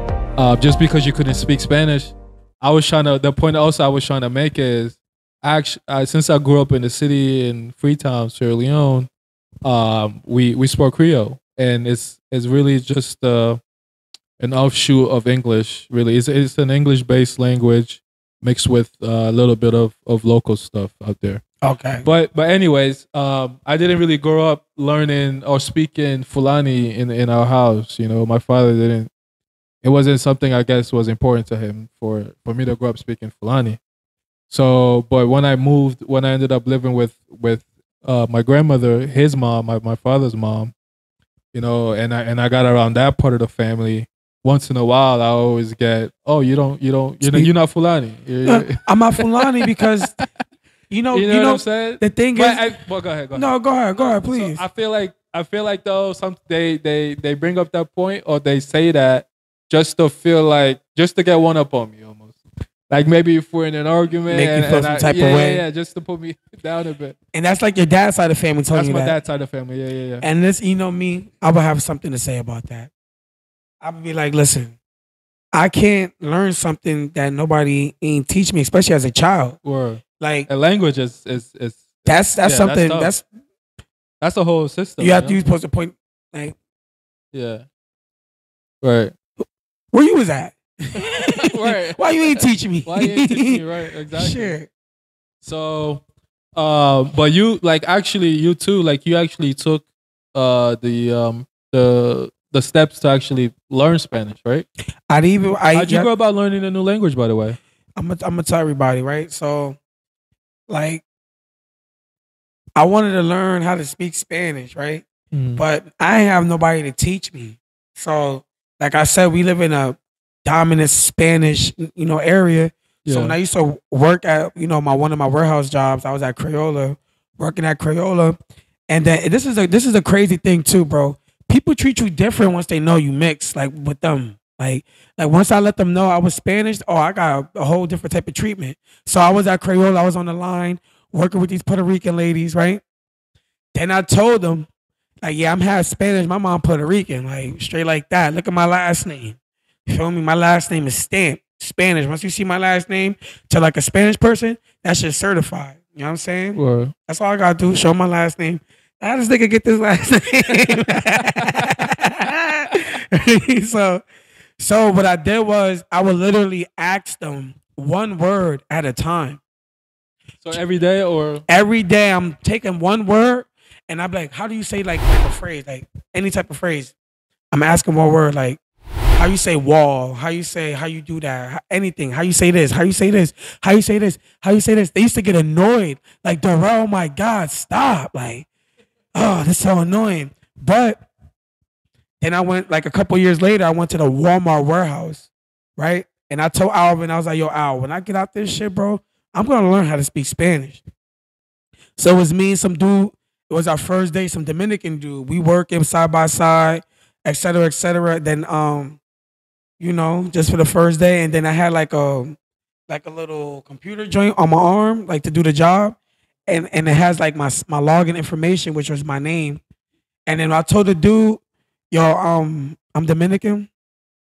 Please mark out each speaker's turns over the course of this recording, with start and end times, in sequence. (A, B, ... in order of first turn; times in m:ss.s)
0:00.4-0:09.1 A
0:09.6-0:13.6 A
0:14.4-0:21.4 A
0:21.6-0:22.1 B
0:22.0-0:29.1 A
0:29.8-0:33.8 A
0:34.5-0:40.7 A
0:41.5-0:49.3 A
0:47.2-0:47.5 B
0:48.5-0:50.2 B
0:50.9-0:52.6 B
0:51.1-1:07.2 A
0:53.3-0:54.6 B
1:04.3-1:05.6 B
1:07.3-1:09.2 B
1:08.7-1:10.2 A
1:10.2-1:12.9 B
1:13.8-1:14.8 B
1:15.5-1:19.6 B
1:19.6-1:23.1 A
1:20.2-1:20.5 B
1:22.0-1:23.3 B
1:24.2-1:25.4 A
1:25.0-1:26.6 B
1:27.3-1:27.6 A
1:28.8-1:29.1 A
1:29.9-1:34.7 B
1:31.4-1:34.6 A
1:35.4-1:36.0 A
1:36.6-1:44.7 A
1:45.1-1:46.1 B
1:45.7-1:47.6 A
1:48.0-1:49.8 B
1:50.7-1:51.0 B
1:52.8-1:55.0 B
1:55.3-1:55.6 A
1:55.6-2:22.8 B
2:03.0-2:03.4 A
2:23.8-2:24.7 B
2:25.2-2:44.0 B
2:36.6-2:36.9 A
2:41.2-2:41.7 A
2:44.6-2:49.4 B
2:50.4-2:51.4 A
2:51.5-2:57.0 B
2:57.5-2:58.6 B
2:59.2-3:08.5 B
3:09.1-3:11.0 B
3:12.2-3:20.8 B
3:22.0-3:29.0 B
3:29.8-3:32.4 B
3:32.9-3:39.6 B
3:40.3-3:43.7 B